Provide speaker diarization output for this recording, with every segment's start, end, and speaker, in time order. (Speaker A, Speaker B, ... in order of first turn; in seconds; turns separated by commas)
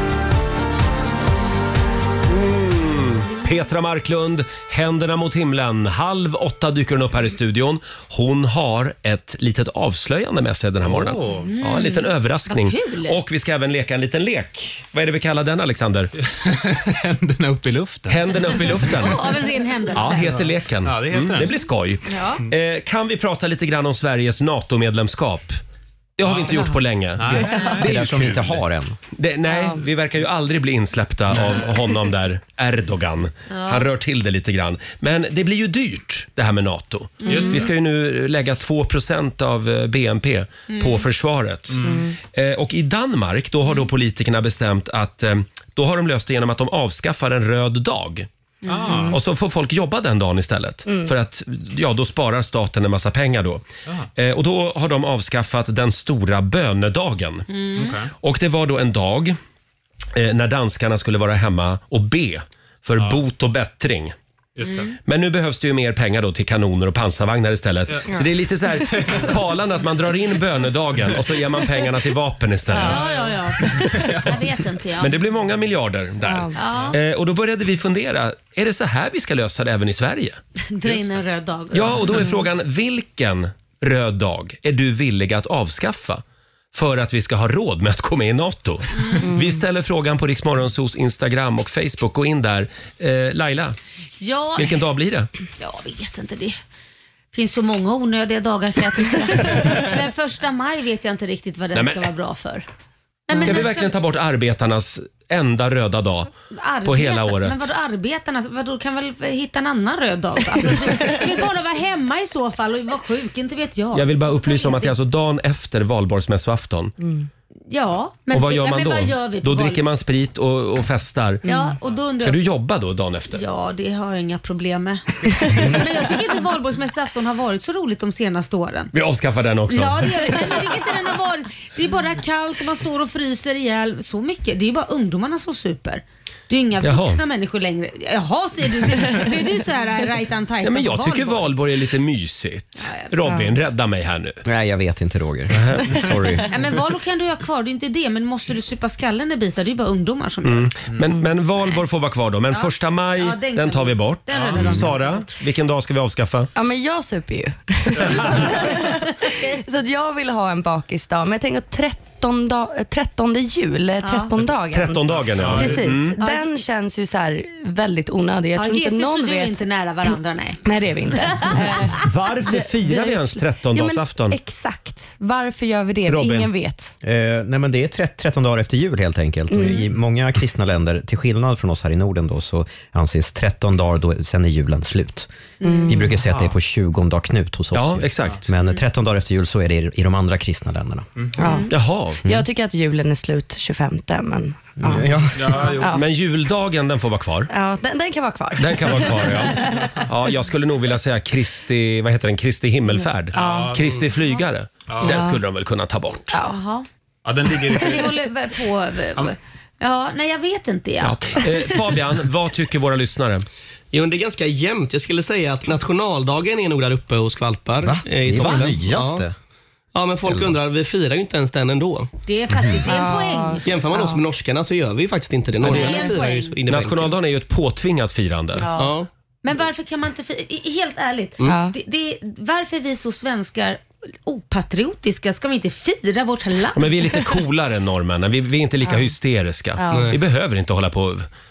Speaker A: 2.3-16.1, Speaker B: 10.8-11.5, Speaker C: 11.4-13.2, Speaker B: 16.2-19.3, Speaker A: 18.1-19.2, Speaker C: 18.8-20.4, Speaker A: 19.9-25.6, Speaker B: 20.0-21.6, Speaker C: 22.1-22.4, Speaker A: 26.2-28.5, Speaker B: 26.2-26.6, Speaker B: 27.1-28.5, Speaker D: 27.5-28.9, Speaker A: 29.1-48.3, Speaker E: 29.5-29.8, Speaker C: 33.5-33.9, Speaker C: 37.2-37.6, Speaker B: 37.2-37.7, Speaker C: 40.7-41.0, Speaker B: 41.7-42.1, Speaker E: 41.8-42.1, Speaker C: 48.6-49.1, Speaker B: 48.6-49.2, Speaker A: 49.1-57.5, Speaker E: 50.9-51.1, Speaker C: 57.5-58.0, Speaker B: 57.8-58.1, Speaker A: 58.2-59.4, Speaker A: 60.1-64.1, Speaker B: 64.6-64.9, Speaker C: 64.6-64.9, Speaker A: 65.0-73.1, Speaker B: 68.9-69.3, Speaker E: 72.7-73.0, Speaker B: 72.7-74.4, Speaker C: 72.8-75.1, Speaker E: 73.6-74.2, Speaker A: 75.0-80.4, Speaker E: 76.2-76.6, Speaker C: 76.5-77.0, Speaker C: 80.7-82.3, Speaker A: 81.7-93.8, Speaker E: 82.1-82.4, Speaker C: 89.0-89.2, Speaker E: 89.2-89.6, Speaker C: 94.2-94.8, Speaker A: 94.6-95.3, Speaker C: 95.6-96.6, Speaker C: 97.3-102.7, Speaker A: 101.7-102.1, Speaker C: 103.3-103.9, Speaker A: 103.3-106.3, Speaker C: 106.5-115.0, Speaker A: 106.8-107.7, Speaker A: 113.9-116.9, Speaker E: 117.0-117.3, Speaker C: 117.7-119.8, Speaker A: 118.3-121.4, Speaker C: 121.4-122.4, Speaker E: 121.5-121.8, Speaker A: 122.2-123.4, Speaker C: 123.3-128.9, Speaker A: 128.9-130.1, Speaker C: 129.7-141.5, Speaker A: 136.8-137.2, Speaker A: 140.6-144.4, Speaker C: 142.8-143.1, Speaker D: 144.4-146.4, Speaker A: 145.5-146.4, Speaker C: 146.5-150.7, Speaker A: 150.4-156.5, Speaker C: 152.5-155.3, Speaker B: 154.3-154.8, Speaker E: 156.5-169.6, Speaker C: 164.0-164.3, Speaker A: 164.7-166.2, Speaker B: 165.3-165.9, Speaker C: 166.2-166.5, Speaker C: 168.6-171.9, Speaker E: 170.6-176.9, Speaker A: 172.0-174.4, Speaker A: 176.1-176.5, Speaker D: 177.0-185.3, Speaker E: 179.5-179.9, Speaker E: 185.6-186.2, Speaker D: 185.9-191.1, Speaker A: 187.7-188.4, Speaker E: 191.4-196.0, Speaker C: 191.4-191.7, Speaker A: 191.7-192.2, Speaker D: 194.8-195.7, Speaker B: 195.3-196.0, Speaker A: 195.9-197.5, Speaker E: 197.5-200.0, Speaker A: 198.6-206.4, Speaker B: 203.3-204.0, Speaker E: 203.3-203.8, Speaker B: 204.9-205.2, Speaker E: 205.0-205.4, Speaker E: 206.3-206.6, Speaker C: 206.4-206.8, Speaker B: 207.2-208.2, Speaker C: 207.7-211.4, Speaker A: 211.0-213.4, Speaker F: 213.9-219.2, Speaker D: 217.8-219.3, Speaker F: 219.9-222.1, Speaker D: 220.2-220.5, Speaker C: 222.2-223.6, Speaker E: 222.8-224.2, Speaker F: 223.6-227.2, Speaker C: 225.6-226.6, Speaker E: 225.7-226.1, Speaker A: 226.7-228.7, Speaker E: 228.6-228.9, Speaker F: 228.7-229.1, Speaker C: 229.4-236.9, Speaker E: 231.4-231.7, Speaker A: 236.7-241.3, Speaker F: 239.9-240.2